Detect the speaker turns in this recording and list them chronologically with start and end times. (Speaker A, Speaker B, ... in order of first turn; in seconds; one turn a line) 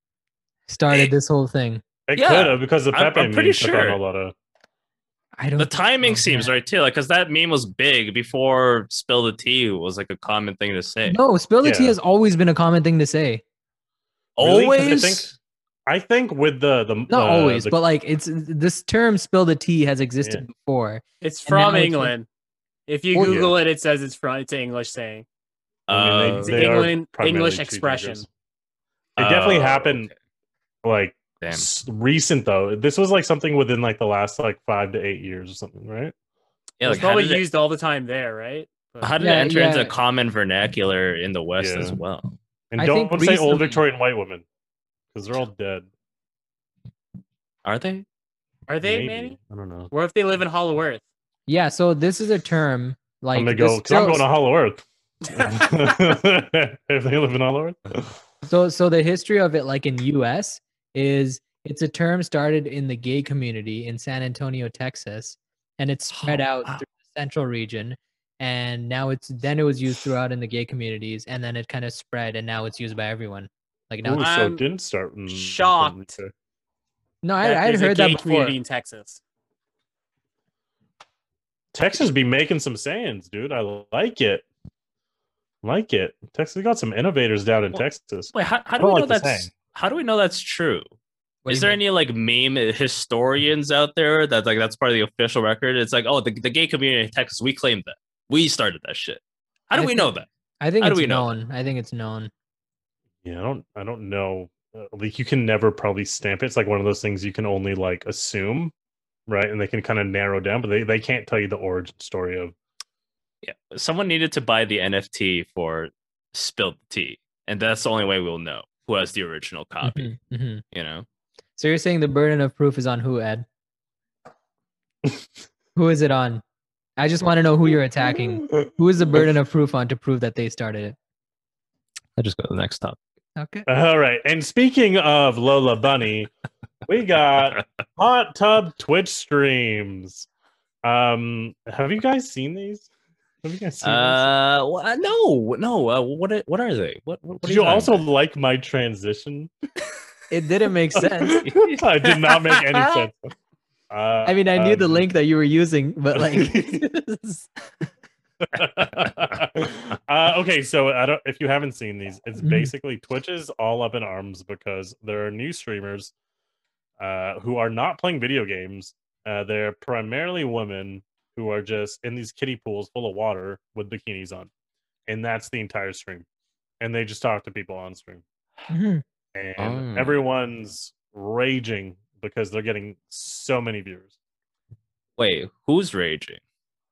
Speaker A: 0.7-1.8
Speaker B: 2.1-4.3
Speaker C: 2.1-4.0
Speaker A: 5.4-6.5
Speaker C: 5.6-11.2
Speaker A: 11.1-13.4
Speaker B: 11.6-12.0
Speaker C: 14.4-15.3
Speaker B: 14.4-15.3
Speaker B: 15.9-17.8
Speaker A: 17.1-22.1
Speaker D: 21.2-22.3
Speaker D: 22.9-25.2
Speaker A: 23.1-23.4
Speaker B: 23.2-23.6
Speaker C: 25.9-26.8
Speaker B: 25.9-28.2
Speaker D: 26.4-28.2
Speaker B: 29.2-30.1
Speaker C: 29.2-30.1
Speaker B: 30.8-36.1
Speaker C: 31.4-31.7
Speaker C: 36.8-37.4
Speaker D: 36.8-39.1
Speaker C: 39.0-42.3
Speaker A: 39.2-39.9
Speaker B: 41.6-42.0
Speaker B: 42.7-44.4
Speaker A: 42.8-43.8
Speaker B: 45.1-45.9
Speaker C: 47.6-48.0
Speaker D: 48.7-49.4
Speaker B: 48.8-49.9
Speaker D: 49.9-51.0
Speaker A: 51.5-54.2
Speaker B: 53.3-58.1
Speaker D: 55.3-55.7
Speaker A: 58.4-74.3
Speaker C: 66.1-66.8
Speaker B: 74.0-76.3
Speaker D: 74.2-74.6
Speaker D: 75.3-76.1
Speaker A: 77.2-78.5
Speaker D: 77.4-79.2
Speaker B: 81.7-84.4
Speaker B: 85.6-89.5
Speaker C: 87.7-90.9
Speaker A: 91.4-91.8
Speaker C: 91.5-100.3
Speaker A: 99.7-102.3
Speaker C: 100.8-101.3
Speaker B: 103.2-108.7
Speaker B: 109.3-112.5
Speaker C: 113.4-120.1
Speaker A: 119.8-120.6
Speaker C: 120.7-121.0
Speaker A: 121.6-123.5
Speaker A: 125.7-126.4
Speaker A: 127.0-130.9
Speaker C: 132.2-133.0
Speaker A: 133.4-133.7
Speaker B: 133.7-136.3
Speaker B: 136.9-140.3
Speaker B: 140.8-142.9
Speaker B: 143.4-144.3
Speaker C: 143.8-148.0
Speaker B: 147.4-149.5
Speaker A: 150.3-151.4
Speaker B: 150.9-153.1
Speaker C: 151.4-151.9
Speaker B: 153.9-155.1
Speaker A: 154.2-157.5
Speaker B: 156.1-156.8
Speaker B: 158.4-166.1
Speaker A: 162.4-162.7
Speaker B: 167.0-174.5
Speaker B: 175.1-176.2
Speaker B: 176.8-178.2
Speaker A: 178.7-179.0
Speaker B: 179.3-184.1
Speaker C: 179.6-180.1
Speaker C: 185.2-186.4